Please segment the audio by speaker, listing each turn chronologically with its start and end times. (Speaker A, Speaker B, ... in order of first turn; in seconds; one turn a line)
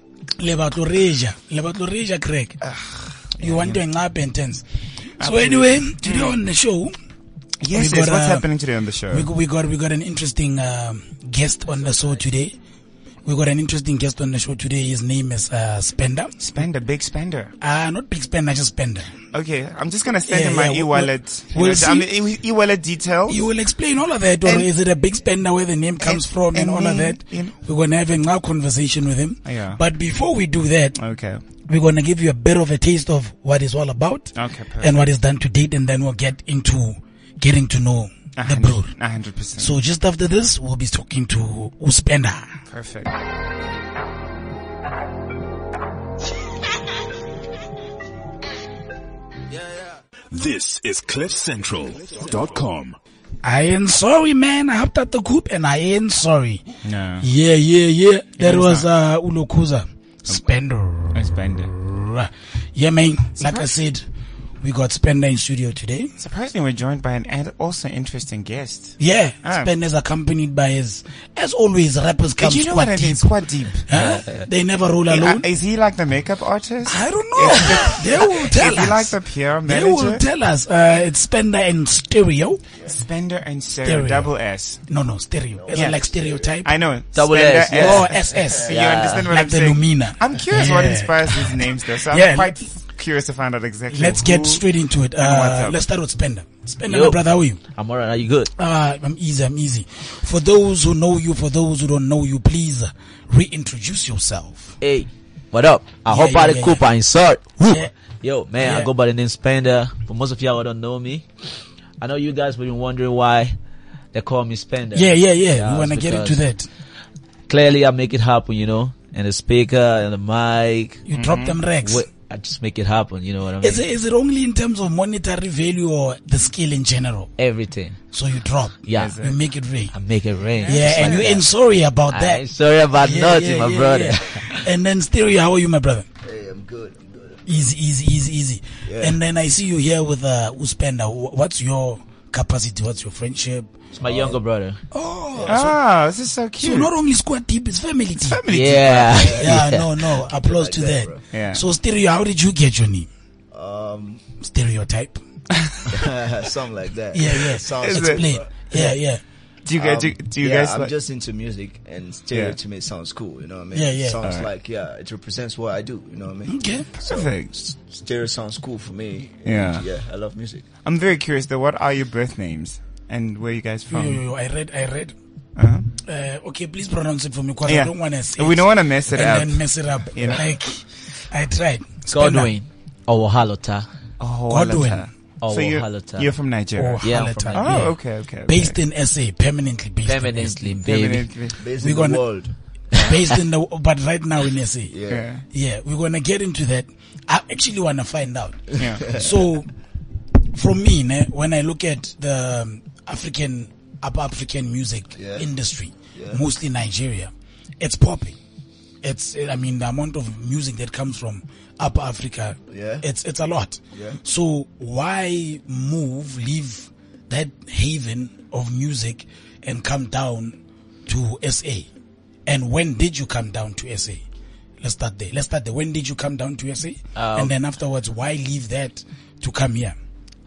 Speaker A: 0.4-2.6
Speaker B: 2.6-3.8
Speaker A: 3.4-4.6
Speaker B: 5.2-6.4
Speaker A: 5.2-6.9
Speaker B: 7.6-9.3
Speaker A: 7.7-8.5
Speaker A: 9.1-12.5
Speaker A: 13.2-16.3
Speaker B: 16.4-17.5
Speaker A: 17.6-19.1
Speaker B: 19.3-23.4
Speaker A: 20.3-22.1
Speaker A: 23.3-31.0
Speaker B: 24.4-24.7
Speaker B: 26.0-27.5
Speaker B: 29.4-29.8
Speaker B: 30.9-31.4
Speaker A: 31.7-38.9
Speaker B: 34.4-35.0
Speaker B: 38.4-39.8
Speaker A: 39.6-42.6
Speaker B: 42.7-43.2
Speaker C: 50.3-53.0
Speaker A: 53.4-56.6
Speaker B: 56.8-57.3
Speaker A: 57.2-64.1
Speaker B: 58.4-58.9
Speaker B: 61.1-61.7
Speaker B: 63.4-63.7
Speaker A: 64.6-66.1
Speaker B: 66.2-69.7
Speaker A: 69.0-73.3
Speaker B: 72.4-74.2
Speaker A: 73.8-75.5
Speaker D: 73.9-74.5
Speaker B: 75.1-80.2
Speaker A: 76.9-82.6
Speaker B: 82.8-84.8
Speaker A: 83.8-84.3
Speaker A: 84.9-86.7
Speaker E: 85.5-86.5
Speaker B: 85.7-86.0
Speaker B: 86.6-94.7
Speaker D: 87.1-88.1
Speaker A: 87.7-92.6
Speaker E: 88.4-88.7
Speaker D: 88.7-89.2
Speaker A: 93.9-97.6
Speaker B: 95.2-95.8
Speaker D: 96.9-98.5
Speaker A: 98.5-104.8
Speaker D: 104.8-111.3
Speaker A: 106.1-106.8
Speaker A: 107.6-107.9
Speaker A: 108.6-108.9
Speaker D: 112.0-113.5
Speaker D: 114.1-116.4
Speaker A: 114.9-116.7
Speaker D: 117.5-121.0
Speaker A: 121.1-122.1
Speaker B: 121.1-121.6
Speaker D: 121.8-123.8
Speaker A: 123.6-127.3
Speaker D: 127.4-128.0
Speaker A: 128.1-129.9
Speaker D: 128.9-129.2
Speaker B: 128.9-129.4
Speaker D: 129.9-131.5
Speaker A: 130.6-136.1
Speaker B: 130.7-131.2
Speaker D: 132.1-134.7
Speaker E: 136.2-137.7
Speaker A: 137.4-143.7
Speaker E: 138.8-139.2
Speaker D: 143.9-144.8
Speaker E: 144.0-144.4
Speaker A: 144.9-145.7
Speaker E: 145.3-145.8
Speaker B: 145.5-146.9
Speaker A: 146.6-148.4
Speaker B: 148.2-149.5
Speaker D: 148.5-149.9
Speaker E: 149.1-151.2
Speaker A: 149.3-153.1
Speaker B: 151.3-151.6
Speaker E: 153.5-154.2
Speaker A: 154.4-155.2
Speaker E: 155.9-158.9
Speaker A: 157.1-159.2
Speaker B: 157.3-158.3
Speaker B: 159.6-160.9
Speaker E: 159.8-170.6
Speaker B: 162.3-162.6
Speaker A: 163.7-164.2
Speaker B: 164.2-164.5
Speaker A: 166.5-166.9
Speaker B: 167.0-167.5
Speaker B: 169.4-169.8
Speaker B: 170.8-174.2
Speaker A: 173.9-175.1
Speaker B: 175.6-175.9
Speaker A: 176.0-182.5
Speaker B: 177.7-180.5
Speaker D: 182.1-183.9
Speaker B: 184.2-188.8
Speaker A: 184.5-185.1
Speaker D: 185.4-186.3
Speaker A: 186.8-190.8
Speaker D: 187.0-187.9
Speaker D: 190.0-191.3
Speaker B: 190.8-191.6
Speaker E: 191.6-192.5
Speaker A: 191.8-192.2
Speaker A: 192.9-194.9
Speaker E: 194.9-195.3
Speaker B: 195.1-195.4
Speaker A: 195.5-199.7
Speaker B: 198.8-199.0
Speaker E: 198.8-199.3
Speaker A: 200.5-208.4
Speaker E: 205.2-205.5
Speaker E: 206.1-206.4
Speaker A: 209.0-221.9
Speaker E: 212.7-213.1
Speaker E: 213.9-214.2
Speaker A: 222.4-224.2
Speaker A: 224.8-229.9
Speaker D: 227.1-227.5